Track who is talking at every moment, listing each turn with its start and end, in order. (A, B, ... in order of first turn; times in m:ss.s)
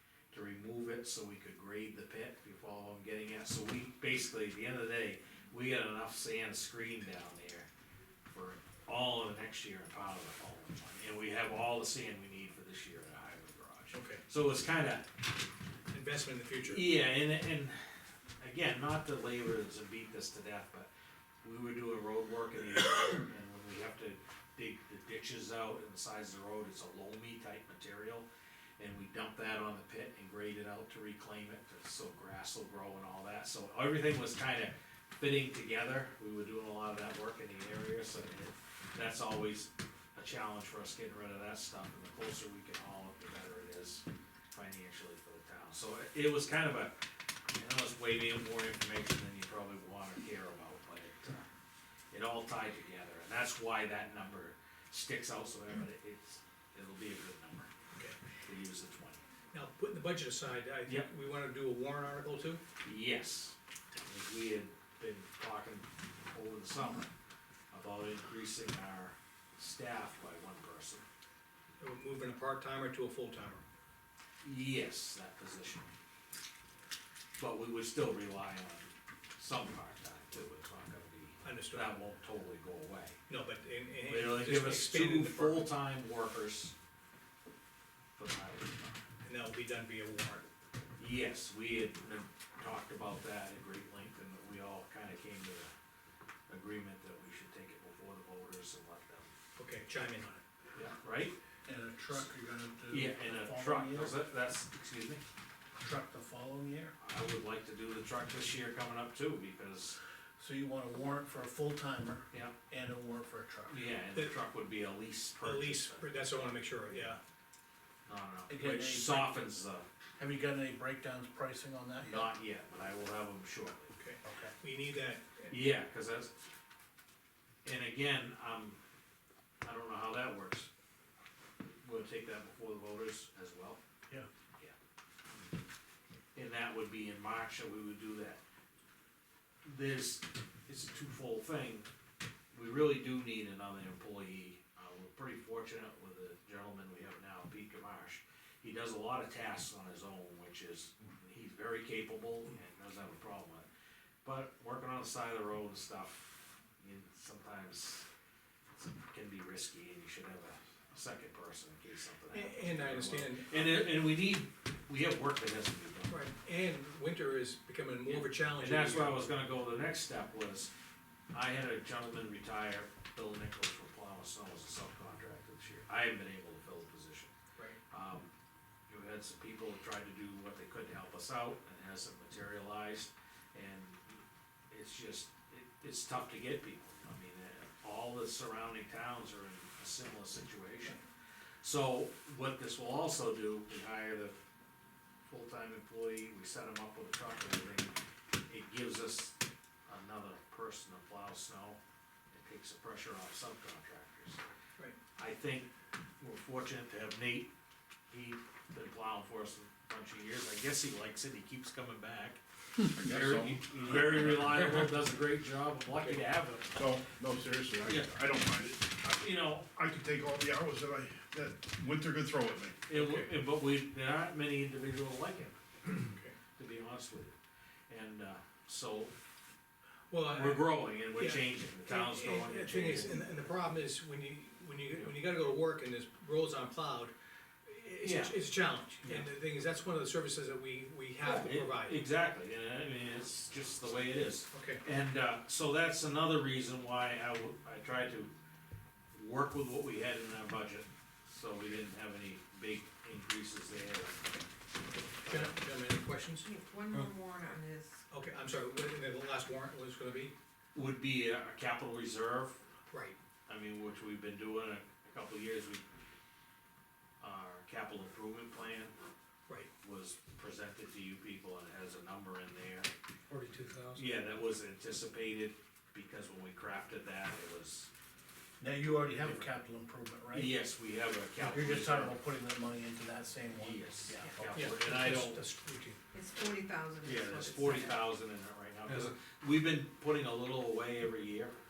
0:00.3-0:07.7 A
0:08.3-0:15.1 A
0:13.9-0:14.2 B
0:15.9-0:16.8 B
0:16.6-0:20.9 A
0:21.4-0:28.3 A
0:28.8-0:46.9 A
0:47.5-0:51.5 A
0:52.1-0:57.7 A
0:58.4-0:59.2 A
0:59.5-1:02.6 B
1:02.8-1:07.1 A
1:07.7-1:11.0 A
1:11.8-1:13.6 B
1:14.4-1:15.9 A
1:17.4-1:23.2 A
1:21.4-1:22.0 B
1:23.3-1:25.7 B
1:24.0-1:26.7 A
1:28.2-1:29.0 A
1:29.2-1:30.5 B
1:31.0-1:35.7 A
1:36.5-1:39.3 A
1:39.6-1:40.4 B
1:40.7-1:41.3 A
1:41.6-1:44.1 C
1:42.9-1:45.2 A
1:45.8-1:46.9 C
1:47.0-1:50.0 A
1:50.4-1:53.8 C
1:53.7-1:57.1 A
1:55.4-1:57.2 B
1:58.0-1:59.8 A
1:58.5-1:59.4 C
2:00.2-2:02.3 C
2:02.0-2:03.9 A
2:04.0-2:05.5 B
2:04.2-2:04.5 C
2:05.5-2:06.3 A
2:07.6-2:08.8 A
2:09.6-2:10.7 A
2:11.7-2:13.8 A
2:16.3-2:18.4 A
2:19.6-2:21.9 A
2:22.5-2:33.7 A
2:34.2-2:38.1 A
2:38.7-2:46.2 A
2:42.3-2:44.0 B
2:46.1-2:49.2 B
2:48.1-2:50.7 A
2:51.3-2:57.3 A
2:57.9-2:58.3 A
2:58.9-3:11.0 A
3:11.6-3:14.4 A
3:15.2-3:17.9 A
3:18.5-3:19.4 A
3:19.9-3:21.8 A
3:22.3-3:24.4 A
3:25.2-3:27.5 A
3:28.1-3:36.8 A
3:32.9-3:34.5 D
3:36.7-3:39.0 D
3:37.8-3:38.1 A
3:39.0-3:39.7 A
3:39.7-3:42.8 D
3:42.9-3:45.6 A
3:42.9-3:43.3 B
3:46.1-3:46.3 B
3:46.6-3:47.3 A
3:47.9-3:49.1 A
3:50.1-3:57.1 B
3:50.2-3:53.3 A
3:57.6-4:02.0 B
3:58.0-3:58.4 A
3:59.0-3:59.3 A
4:01.2-4:08.3 A
4:04.5-4:04.8 B
4:09.1-4:14.2 A
4:15.2-4:15.6 A
4:15.2-4:16.5 B
4:16.4-4:18.0 E
4:18.1-4:20.3 B
4:20.7-4:22.6 A
4:22.9-4:23.2 B
4:23.5-4:25.8 A
4:27.2-4:28.9 A
4:29.8-4:32.9 A
4:33.3-4:34.1 B
4:33.9-4:37.9 A
4:38.6-4:40.6 C
4:39.1-4:39.5 A
4:40.3-4:42.2 A
4:41.4-4:44.7 C
4:43.6-4:45.4 A
4:44.5-4:46.0 B
4:46.1-4:48.1 E
4:47.0-4:51.5 A
4:48.9-4:49.1 B